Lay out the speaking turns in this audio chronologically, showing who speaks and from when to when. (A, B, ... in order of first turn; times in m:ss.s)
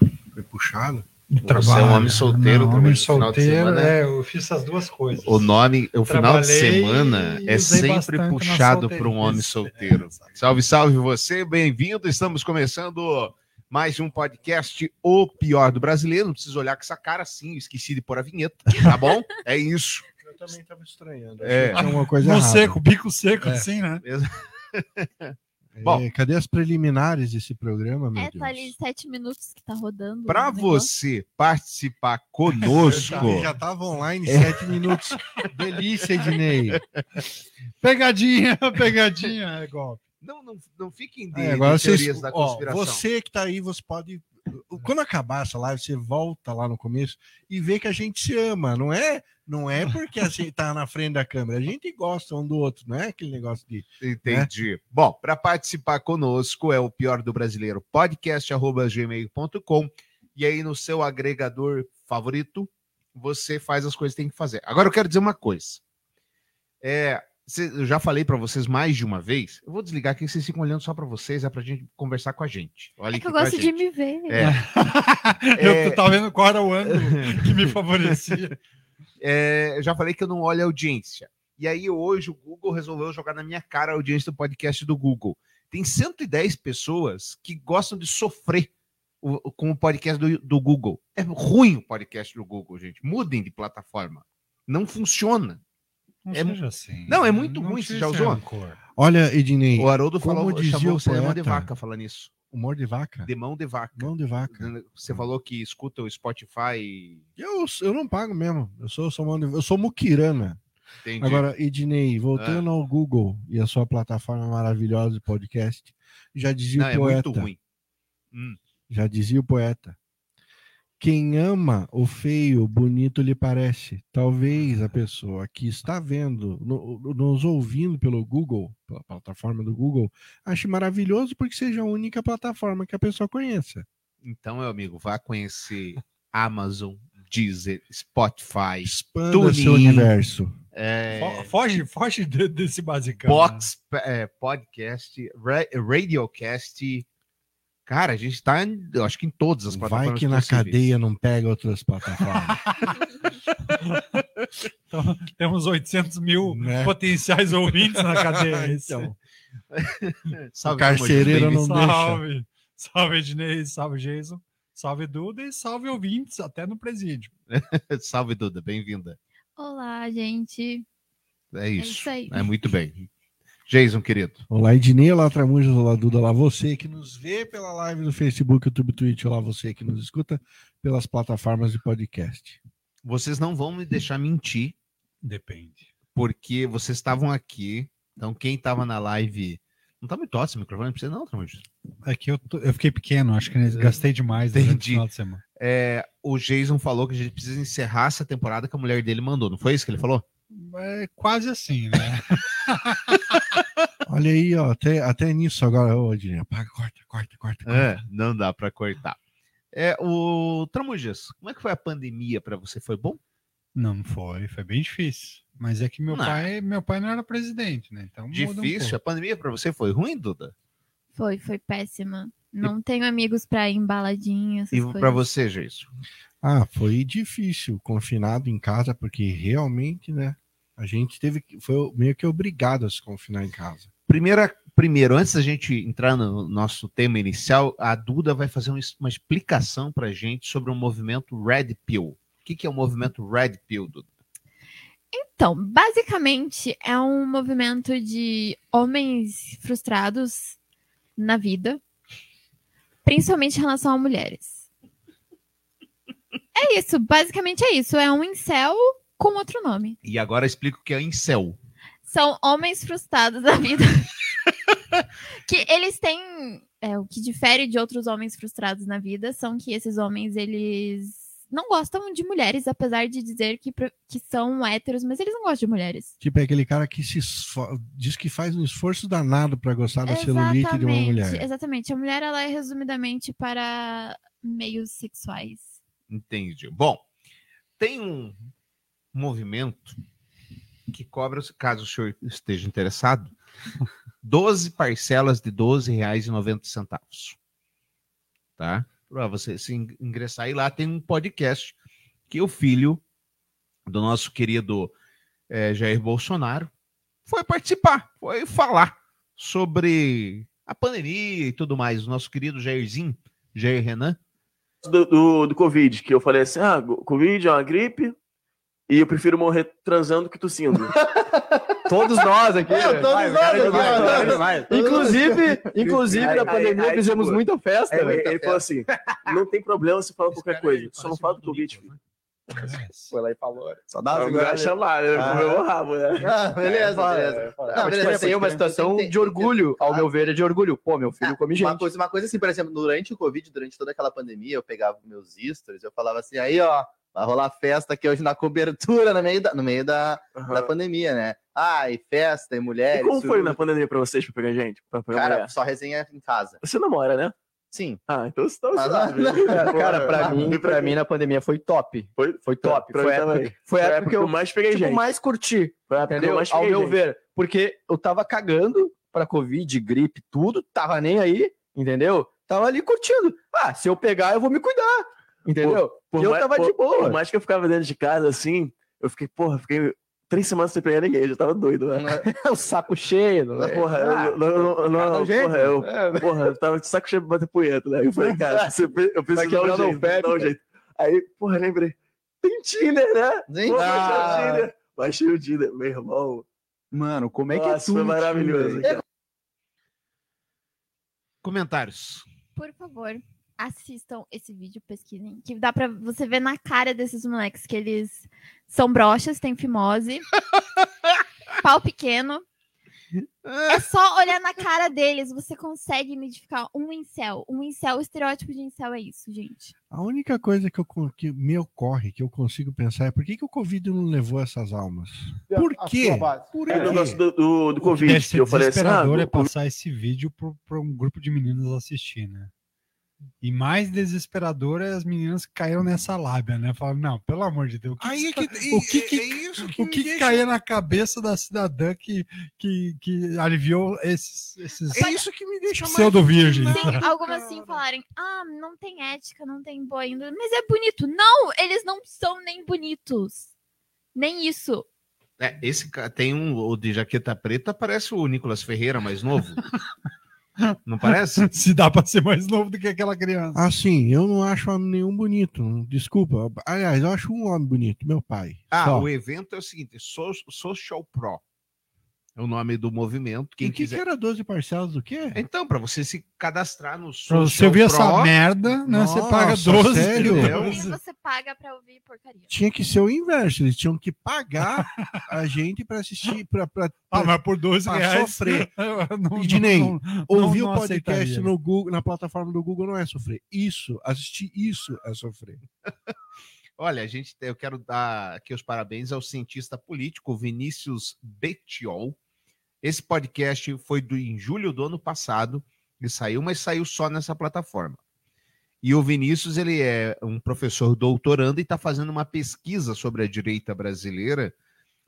0:00.3-0:01.0 A
0:01.3-0:05.5 B
0:01.5-0:03.9 C
0:05.2-0:20.0 C
0:06.1-0:10.4 B
0:20.2-0:22.8 A
0:21.4-0:21.8 C
0:21.8-0:24.0 B
0:24.0-0:26.0 C
0:25.7-0:28.7 A
0:28.2-0:30.9 D
0:30.3-0:33.5 C
0:32.6-0:33.3 B
0:32.7-0:36.8 A
0:34.3-0:34.8 C
0:36.7-0:37.2 C
0:37.8-0:40.0 B
0:40.2-0:43.0 C
0:41.3-0:54.5 A
0:54.0-1:05.8 C
1:06.8-1:13.8 C
1:13.1-1:14.4 D
1:14.3-1:14.6 C
1:14.4-1:18.5 B
1:15.6-1:16.0 C
1:16.9-1:17.7 C
1:19.2-1:28.7 C
1:29.2-1:35.6 C
1:36.2-1:38.8 B
1:36.3-1:38.4 C
1:39.0-1:41.7 A
1:39.8-1:42.3 C
1:42.5-1:43.3 A
1:43.2-1:47.2 C
1:44.0-1:45.3 A
1:47.4-1:50.6 A
1:51.0-1:51.4 C
1:51.2-1:57.5 A
1:52.4-1:52.7 C
1:56.7-1:57.6 C
1:58.3-1:58.6 C
1:58.9-2:00.0 A
2:01.0-2:13.8 A
2:14.2-2:20.1 C
2:18.8-2:20.5 A
2:20.7-2:21.5 C
2:21.2-2:23.6 B
2:23.2-2:27.0 C
2:27.9-2:30.8 C
2:29.7-2:32.6 A
2:32.7-2:33.0 B
2:33.8-2:34.2 B
2:34.9-2:39.2 B
2:36.4-2:37.0 A
2:37.9-2:39.1 A
2:39.7-2:41.7 C
2:40.6-2:42.2 A
2:41.2-2:47.3 B
2:47.5-2:49.2 C
2:49.6-2:50.8 D
2:51.5-2:53.0 C
2:51.8-2:52.5 D
2:53.7-2:54.4 C
2:54.5-3:02.6 A
3:03.0-3:04.7 C
3:05.2-3:05.9 B
3:06.1-3:11.6 C
3:12.0-3:15.4 B
3:13.6-3:14.0 C
3:14.5-3:15.0 C
3:15.6-3:20.2 C
3:20.5-3:23.2 B
3:24.0-3:28.0 A
3:27.6-3:29.2 C
3:29.7-3:33.2 C
3:33.8-3:39.0 B
3:36.1-3:36.4 C
3:38.3-3:40.5 C
3:41.1-3:45.2 D
3:44.7-3:45.9 C
3:46.4-3:53.9 A
3:54.1-4:04.0 C
4:05.1-4:10.6 D
4:11.2-4:11.8 D
4:13.0-4:14.6 D
4:16.5-4:20.0 D
4:20.0-4:21.6 C
4:22.0-4:24.1 D
4:25.4-4:36.1 D
4:36.2-4:41.4 A
4:40.0-4:45.7 D
4:46.1-4:47.0 C
4:47.8-4:48.4 C
4:49.1-4:50.0 C
4:50.9-4:53.3 C
4:54.2-4:57.4 C
4:58.6-5:01.7 C
5:02.3-5:03.0 C
5:03.9-5:04.9 C
5:05.5-5:06.7 C
5:07.3-5:14.2 C
5:14.8-5:18.2 E
5:18.9-5:21.0 E
5:21.9-5:28.5 F
5:21.9-5:31.9 E
5:22.7-5:27.4 G
5:27.9-5:28.6 G
5:30.3-5:32.0 C
5:32.5-5:33.1 B
5:33.1-5:35.6 F
5:34.1-5:36.3 E
5:35.1-5:35.6 G
5:36.2-5:40.1 G
5:36.6-5:41.9 F
5:37.8-5:38.3 E
5:41.2-5:53.6 G
5:50.3-5:50.7 E
5:52.9-5:55.5 E
5:55.1-5:56.6 G
5:56.6-5:57.3 E
5:57.7-5:58.0 G
5:58.1-6:01.0 E
5:58.7-6:00.9 G
5:59.3-6:17.2 F
6:02.2-6:05.2 E
6:05.8-6:07.0 E
6:15.6-6:36.4 E
6:22.0-6:22.5 F
6:23.7-6:24.2 F
6:23.7-6:24.3 G
6:25.0-6:25.7 F
6:25.1-6:26.3 G
6:28.2-6:28.6 F
6:29.3-6:30.5 F
6:33.5-6:34.7 G
6:33.9-6:34.4 F
6:37.4-6:39.0 E
6:41.4-6:42.2 C
6:42.6-6:50.2 D
6:51.6-6:52.4 D
6:53.4-6:53.8 C
6:53.7-6:59.7 D
6:59.9-7:07.2 A
7:05.5-7:07.2 G
7:06.7-7:09.5 E
7:08.0-7:12.5 B
7:13.4-7:25.1 B
7:18.0-7:20.5 A
7:24.9-7:27.8 A
7:25.0-7:25.2 D
7:25.8-7:27.0 B
7:26.7-7:33.5 D
7:34.1-7:34.8 D
7:35.4-7:39.6 C
7:40.8-7:41.5 C
7:41.4-7:43.6 B
7:43.5-7:49.1 A
7:48.7-7:51.4 C
7:52.4-7:54.0 C
7:53.6-7:55.4 A
7:55.3-7:58.3 C
7:57.3-8:01.0 B
7:58.8-8:00.7 A
8:00.4-8:02.5 D
8:02.5-8:07.3 A
8:07.1-8:11.5 B
8:07.8-8:08.7 A
8:09.4-8:15.6 A
8:16.8-8:22.2 C
8:22.8-8:28.0 C
8:28.8-8:34.5 C